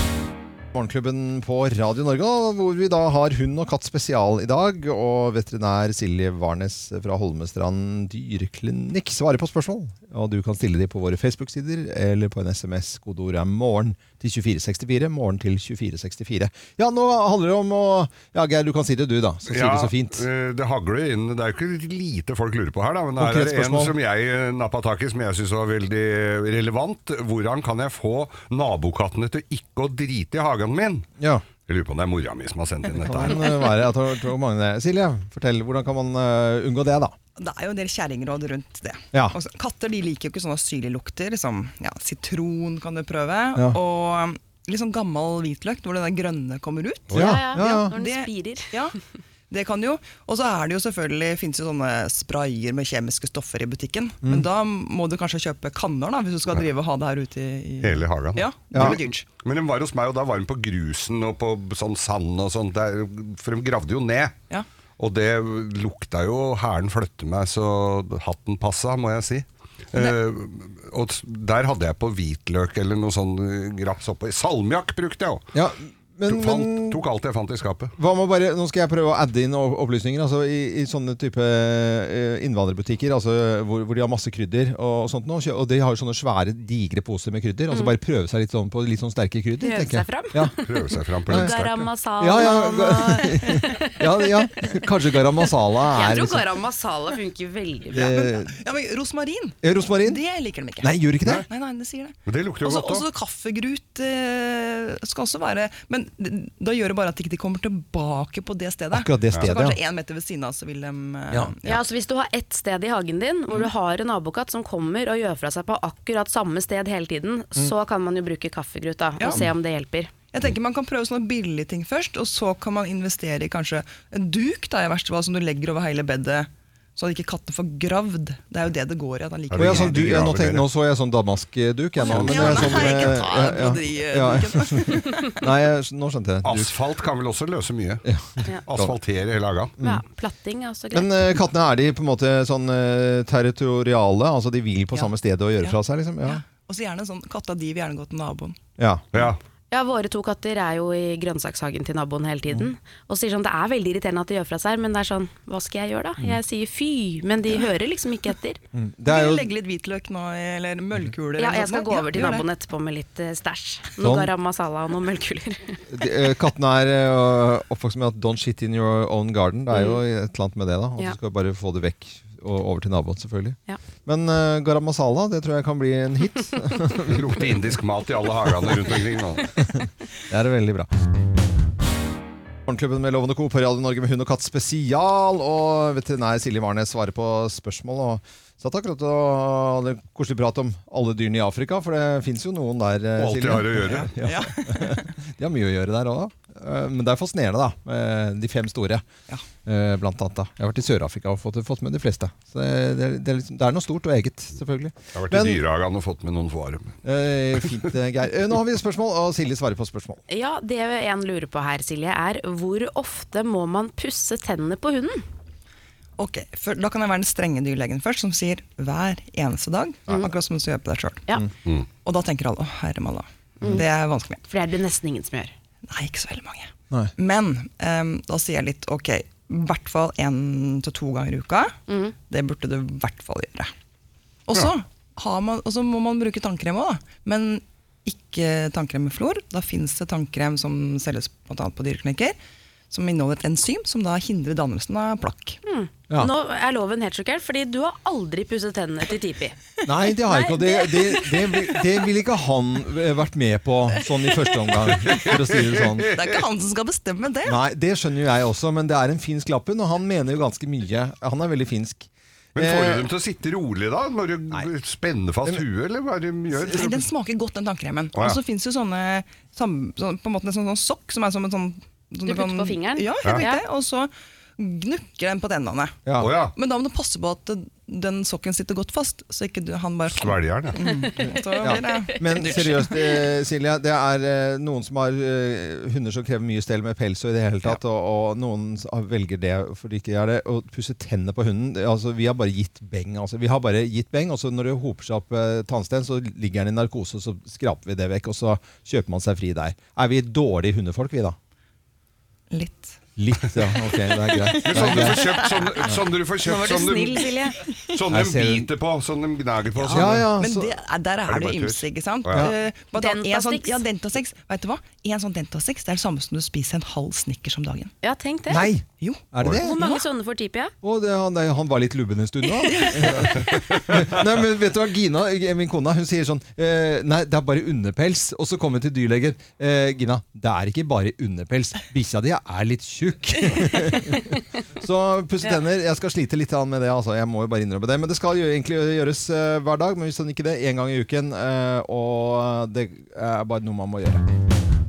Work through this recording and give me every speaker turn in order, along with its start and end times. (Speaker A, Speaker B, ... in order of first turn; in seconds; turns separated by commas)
Speaker A: 0.7-20.2, Speaker B: 19.5-31.1, Speaker A: 23.2-23.9, Speaker A: 31.2-31.4, Speaker B: 31.6-33.5, Speaker A: 33.0-37.1, Speaker C: 37.4-49.0, Speaker A: 47.1-47.9, Speaker D: 47.2-48.7, Speaker C: 49.5-59.3, Speaker B: 57.8-64.4, Speaker A: 58.7-59.0, Speaker B: 65.0-75.5, Speaker A: 75.5-77.0, Speaker B: 76.3-77.9, Speaker A: 78.0-90.5, Speaker D: 89.6-94.7, Speaker B: 90.6-91.8, Speaker A: 91.3-96.4, Speaker D: 95.9-98.2, Speaker A: 97.9-98.6, Speaker C: 98.1-100.9, Speaker A: 99.6-100.2, Speaker A: 100.8-101.4, Speaker C: 101.5-111.8, Speaker B: 102.2-103.0, Speaker A: 108.9-109.8, Speaker D: 111.7-120.1, Speaker C: 119.2-119.5, Speaker C: 120.3-130.2, Speaker B: 129.5-130.7, Speaker A: 129.5-136.7, Speaker C: 132.0-135.3, Speaker B: 132.1-133.2, Speaker B: 136.4-138.0, Speaker A: 138.0-139.0, Speaker B: 138.7-139.7, Speaker D: 139.8-141.1, Speaker A: 140.9-146.4, Speaker C: 144.9-148.6, Speaker A: 148.8-149.3, Speaker B: 149.1-149.4, Speaker D: 149.7-158.6, Speaker A: 158.7-159.5, Speaker C: 159.1-162.5, Speaker D: 161.4-165.8, Speaker A: 164.0-164.3, Speaker A: 165.9-177.4, Speaker B: 177.1-179.5, Speaker A: 179.7-180.9, Speaker A: 182.7-199.1, Speaker B: 193.2-194.1, Speaker C: 193.8-195.1, Speaker A: 199.6-205.6, Speaker B: 205.1-207.0, Speaker A: 207.0-210.2, Speaker D: 210.3-215.2, Speaker C: 216.2-221.3, Speaker C: 222.0-224.4, Speaker D: 224.5-225.5, Speaker C: 225.9-233.7, Speaker C: 234.5-242.4, Speaker C: 242.9-245.6, Speaker D: 245.7-249.6, Speaker A: 249.8-256.1, Speaker D: 250.3-251.5, Speaker B: 255.0-256.3, Speaker C: 256.1-257.6, Speaker A: 257.4-263.1, Speaker B: 262.6-267.0, Speaker C: 266.7-276.0, Speaker D: 272.3-273.6, Speaker A: 276.0-276.4, Speaker B: 276.2-276.5, Speaker C: 276.5-283.2, Speaker B: 280.1-280.8, Speaker D: 280.8-282.2, Speaker A: 281.2-301.4, Speaker C: 302.5-303.0, Speaker A: 303.2-306.0, Speaker C: 304.0-305.7, Speaker B: 304.6-307.3, Speaker D: 306.4-307.6, Speaker B: 307.9-310.3, Speaker A: 308.1-308.7, Speaker C: 309.7-317.9, Speaker A: 309.9-310.7, Speaker B: 311.3-312.5, Speaker D: 312.9-313.8, Speaker D: 318.0-318.6, Speaker A: 318.5-319.8, Speaker C: 318.9-320.0, Speaker D: 319.6-320.7, Speaker A: 320.8-344.2, Speaker C: 322.6-323.4, Speaker B: 323.2-324.2